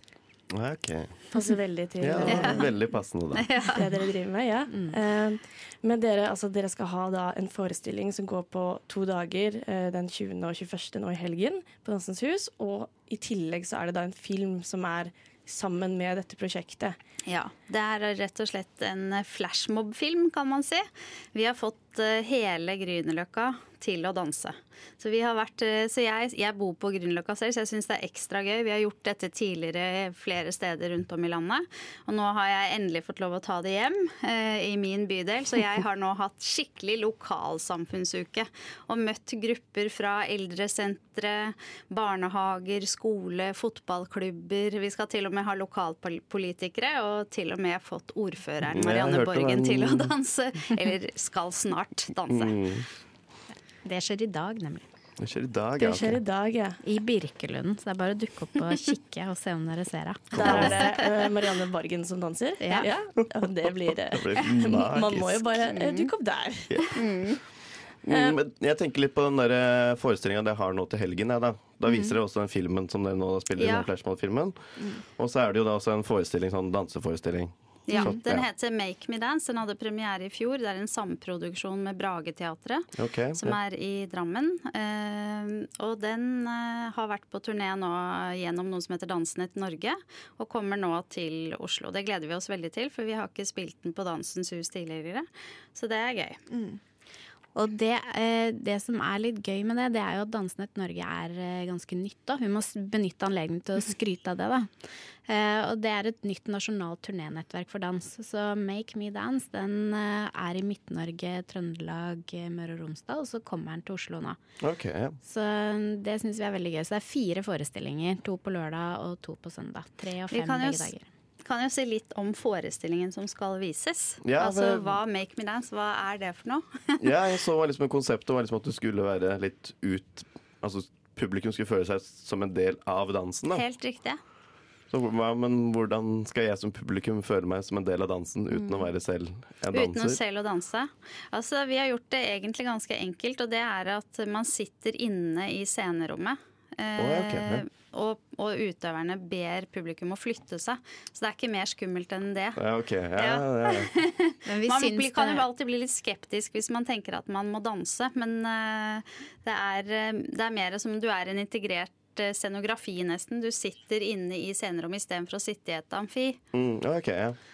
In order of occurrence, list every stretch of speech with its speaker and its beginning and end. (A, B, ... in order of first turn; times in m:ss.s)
0:00.5-0:01.2 A
0:01.3-0:02.7 B
0:02.0-0:03.5 A
0:02.3-0:02.6 C
0:03.4-0:03.8 C
0:03.7-0:17.0 B
0:17.3-0:52.6 C
0:48.6-0:50.1 A
0:52.3-0:52.9 A
0:53.8-0:54.9 D
0:55.2-0:56.2 A
0:55.8-0:56.8 B
0:56.8-1:00.8 D
1:00.4-1:06.8 B
1:00.5-1:01.0 C
1:02.6-1:02.9 D
1:04.1-1:05.7 A
1:06.7-1:07.0 A
1:07.0-1:07.3 C
1:08.0-1:14.6 A
1:08.1-1:08.4 B
1:13.6-1:13.9 C
1:15.2-1:18.4 A
1:17.9-1:36.4 C
1:23.0-1:23.6 A
1:37.5-1:44.7 D
1:45.3-1:54.4 D
1:54.6-1:55.2 A
1:55.2-2:01.0 D
2:00.3-2:00.9 C
2:01.4-2:07.0 C
2:04.2-2:05.0 A
2:07.0-2:13.6 A
2:13.5-2:14.2 C
2:14.9-2:20.2 A
2:19.7-2:32.6 C
2:27.0-2:27.6 A
2:32.6-2:33.9 A
2:33.2-2:46.4 C
2:34.5-2:35.4 D
2:46.5-2:47.4 A